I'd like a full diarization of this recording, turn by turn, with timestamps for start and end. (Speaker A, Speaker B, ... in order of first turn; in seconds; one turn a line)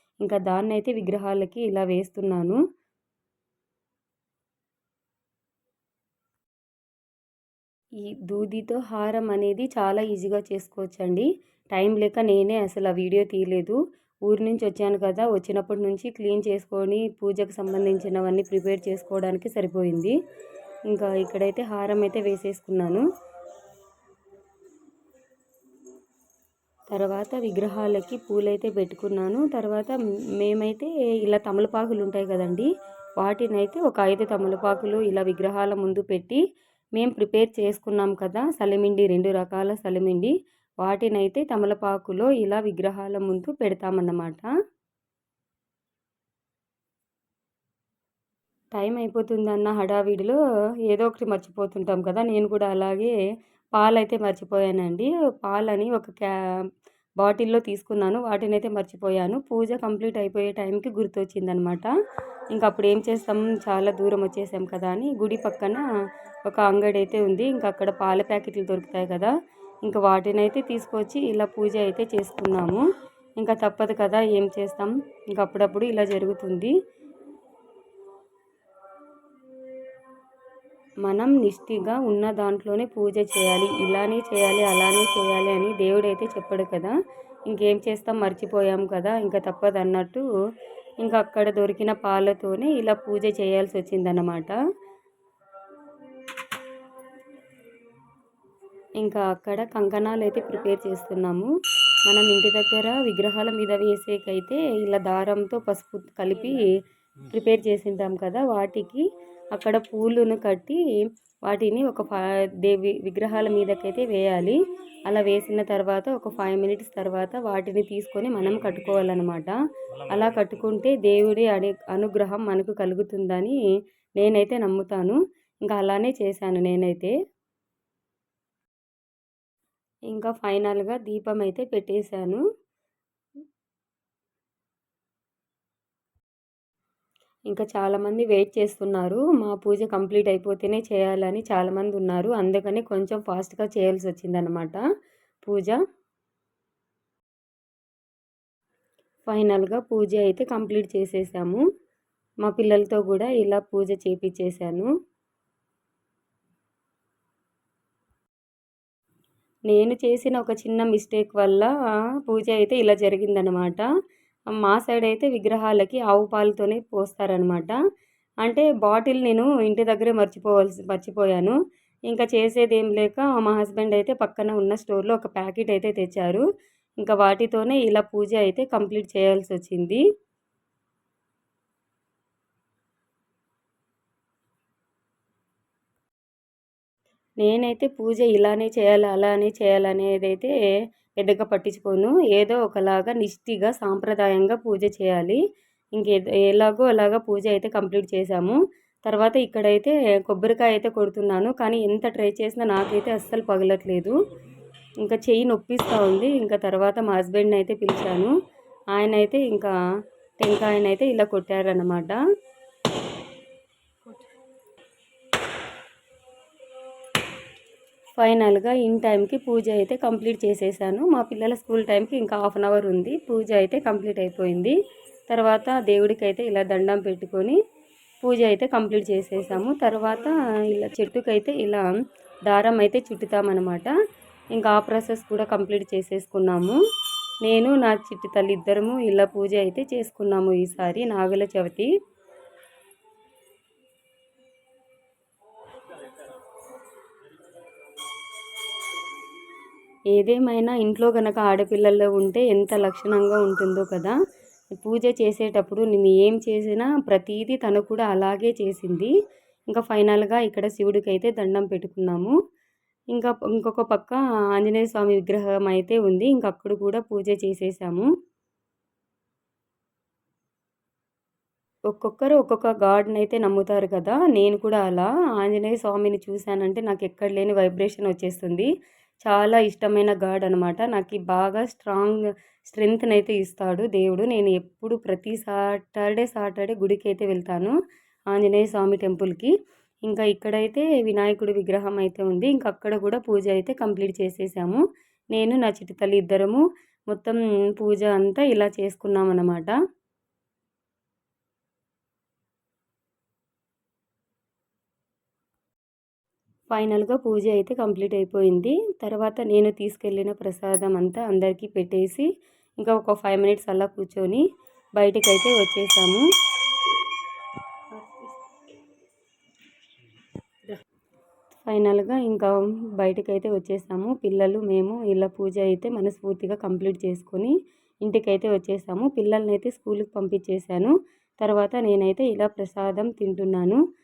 Speaker A: 0.2-2.6
Speaker A: 8.3-20.1
Speaker A: 20.9-23.0
Speaker A: 26.9-32.7
Speaker A: 33.2-36.4
Speaker A: 37.0-44.5
Speaker A: 48.8-53.1
Speaker A: 53.7-56.3
Speaker A: 57.2-61.9
Speaker A: 62.5-65.8
Speaker A: 66.5-69.3
Speaker A: 69.8-72.8
Speaker A: 73.4-76.7
Speaker A: 81.0-86.9
Speaker A: 87.5-90.2
Speaker A: 91.0-94.6
Speaker A: 99.0-101.5
Speaker A: 102.0-106.6
Speaker A: 107.3-109.0
Speaker A: 109.5-114.6
Speaker A: 115.1-119.5
Speaker A: 120.1-123.6
Speaker A: 124.2-127.1
Speaker A: 130.1-132.4
Speaker A: 137.5-144.8
Speaker A: 145.4-145.8
Speaker A: 149.3-151.6
Speaker A: 152.4-154.9
Speaker A: 159.7-161.7
Speaker A: 162.3-163.9
Speaker A: 164.6-167.8
Speaker A: 168.4-171.6
Speaker A: 172.1-176.4
Speaker A: 177.0-180.0
Speaker A: 187.4-190.5
Speaker A: 191.2-195.4
Speaker A: 195.9-204.2
Speaker A: 205.0-208.3
Speaker A: 208.9-209.7
Speaker A: 210.4-212.2
Speaker A: 218.2-224.8
Speaker A: 225.3-227.6
Speaker A: 228.2-231.8
Speaker A: 232.5-233.9
Speaker A: 234.5-236.8
Speaker A: 237.4-241.9
Speaker A: 250.1-254.2
Speaker A: 254.8-259.1
Speaker A: 259.7-262.3
Speaker A: 263.1-268.1
Speaker A: 271.9-278.7
Speaker A: 279.2-287.7
Speaker A: 288.3-289.5
Speaker A: 290.1-294.8
Speaker A: 295.3-299.7
Speaker A: 306.7-314.4
Speaker A: 315.0-316.2
Speaker A: 317.9-318.2
Speaker A: 321.6-327.5
Speaker A: 328.1-333.8